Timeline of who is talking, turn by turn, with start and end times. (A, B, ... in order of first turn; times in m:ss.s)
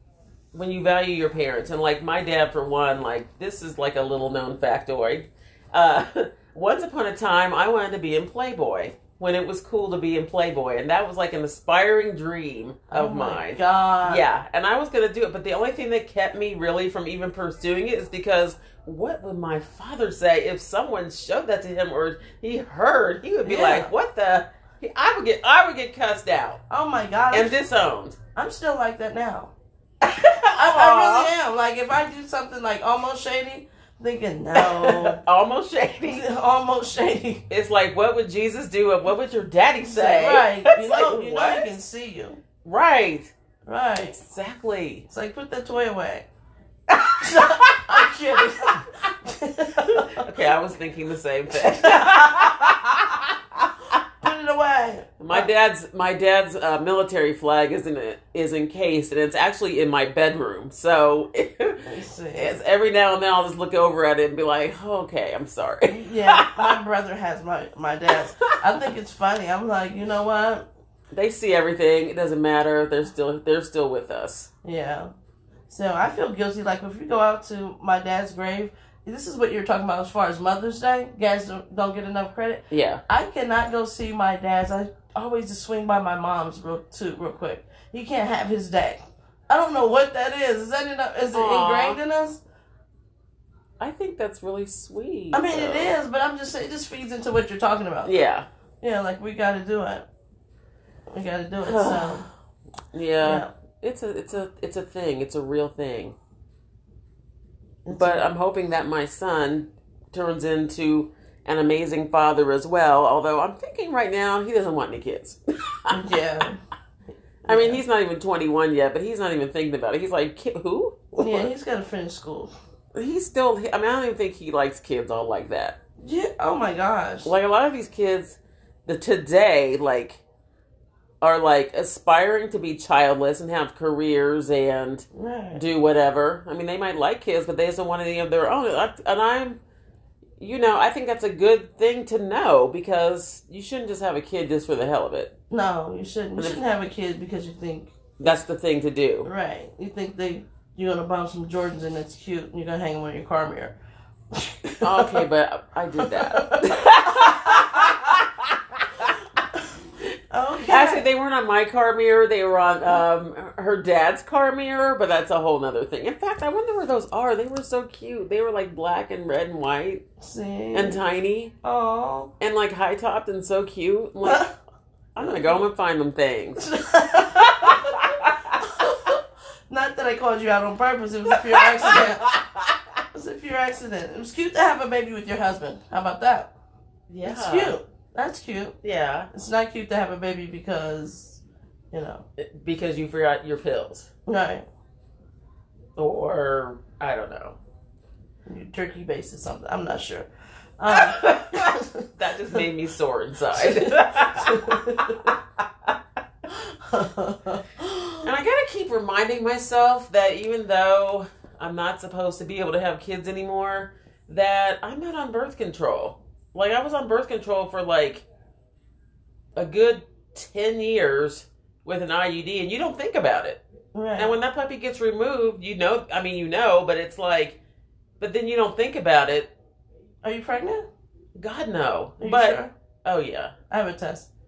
0:00.5-0:26.6 A
0:12.9-0:14.2 B
0:23.4-0:23.9 B
0:26.7-0:27.6 B
0:27.3-0:28.2 A
0:28.4-0:29.5 B
0:30.0-0:31.3 A
0:30.6-0:35.2 B
0:34.6-0:36.2 A
0:36.0-0:37.4 B
0:37.5-0:41.7 A
0:39.8-0:42.4 B
0:42.6-0:43.3 A
0:43.6-0:44.2 B
0:44.0-0:45.0 A
0:45.1-0:46.3 B
0:47.0-0:48.9 A
0:47.2-0:50.3 B
0:50.1-0:53.7 A
0:51.5-0:52.7 B
0:54.2-0:55.5 B
0:55.2-1:06.8 A
1:01.8-1:02.6 B
1:05.9-1:10.6 B
1:08.6-1:08.9 A
1:11.1-1:14.5 A
1:14.6-1:15.1 B
1:15.7-1:32.4 B
1:22.7-1:23.0 A
1:31.3-1:32.0 A
1:33.8-1:35.9 A
1:35.3-1:38.1 B
1:38.0-1:38.5 A
1:38.8-1:40.1 B
1:41.1-1:42.2 B
1:41.6-1:42.3 A
1:42.9-1:46.2 A
1:43.2-1:43.5 B
1:47.8-1:48.3 B
1:47.9-1:56.0 A
1:55.9-1:56.6 B
1:57.4-2:01.5 A
1:57.5-1:57.8 B
2:01.2-2:02.5 B
2:02.9-2:05.8 A
2:06.0-2:07.3 B
2:07.2-2:10.2 A
2:11.2-2:19.6 A
2:15.1-2:15.6 B
2:20.4-2:25.3 A
2:25.5-2:27.9 B
2:28.2-2:29.3 A
2:29.2-2:33.8 B
2:34.3-2:35.2 B
2:34.8-2:39.1 A
2:36.0-2:37.9 B
2:40.3-2:41.1 B
2:40.6-2:50.0 A
2:50.2-2:51.0 B
2:50.7-2:51.5 A
2:51.6-2:52.3 B
2:52.4-2:54.5 A
2:54.2-2:54.5 B
2:55.2-2:58.5 A
2:55.2-2:55.6 B
2:56.6-2:58.0 B
2:58.6-3:02.2 B
3:01.3-3:02.7 A
3:03.1-3:06.5 B
3:07.1-3:07.8 A
3:07.2-3:08.7 B
3:08.8-3:09.3 A
3:09.3-3:12.2 B
3:12.4-3:14.1 A
3:14.3-3:14.6 B
3:16.0-3:17.6 A
3:18.5-3:20.3 B
3:20.8-3:22.6 B
3:20.9-3:25.3 A
3:23.6-3:25.1 B
3:26.5-3:28.3 B
3:28.2-3:38.2 A
3:39.6-3:43.6 A
3:43.9-3:44.4 B
3:44.2-3:47.6 A
3:48.2-3:49.5 A
3:50.2-3:50.8 B
3:51.4-3:53.5 A
3:52.2-3:52.7 B
3:53.7-3:54.3 B